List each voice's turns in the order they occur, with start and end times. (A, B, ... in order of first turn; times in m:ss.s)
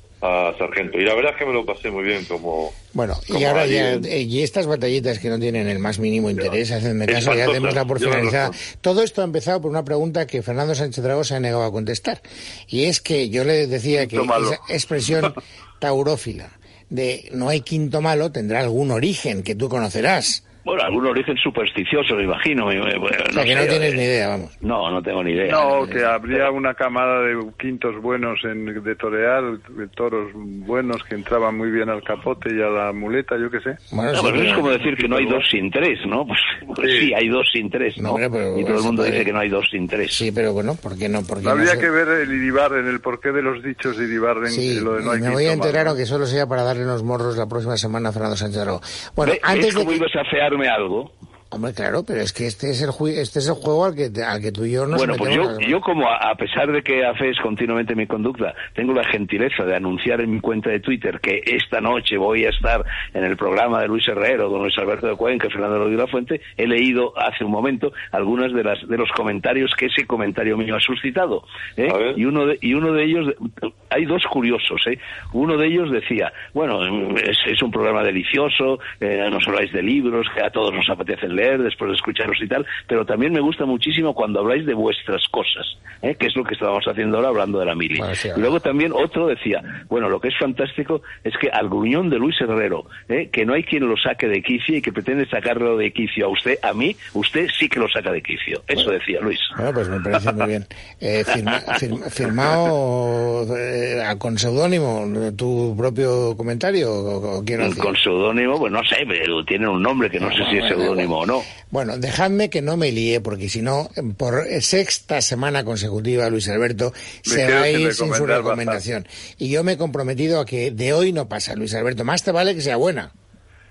0:00.2-0:02.8 A
0:02.9-0:20.4 B
0:03.3-0:04.0 A
0:07.1-0:08.6 A
0:13.9-0:14.6 C
0:20.6-0:24.0 D
0:23.3-0:24.5 B
0:24.6-0:26.4 D
0:25.4-0:33.8 C
0:33.9-0:34.8 B
0:34.1-0:40.2 D
0:35.0-0:35.4 C
0:36.8-0:37.1 A
0:38.0-0:39.3 B
0:40.1-0:41.9 B
0:41.4-0:46.0 C
0:44.5-0:50.0 B
0:49.2-0:51.1 D
0:51.5-0:55.8 B
0:54.9-1:39.5 D
1:11.8-1:12.2 A
1:27.9-1:28.5 B
1:39.5-1:47.9 B
1:47.6-1:51.5 D
1:50.2-1:51.1 B
1:51.7-2:03.1 B
1:57.3-1:58.8 C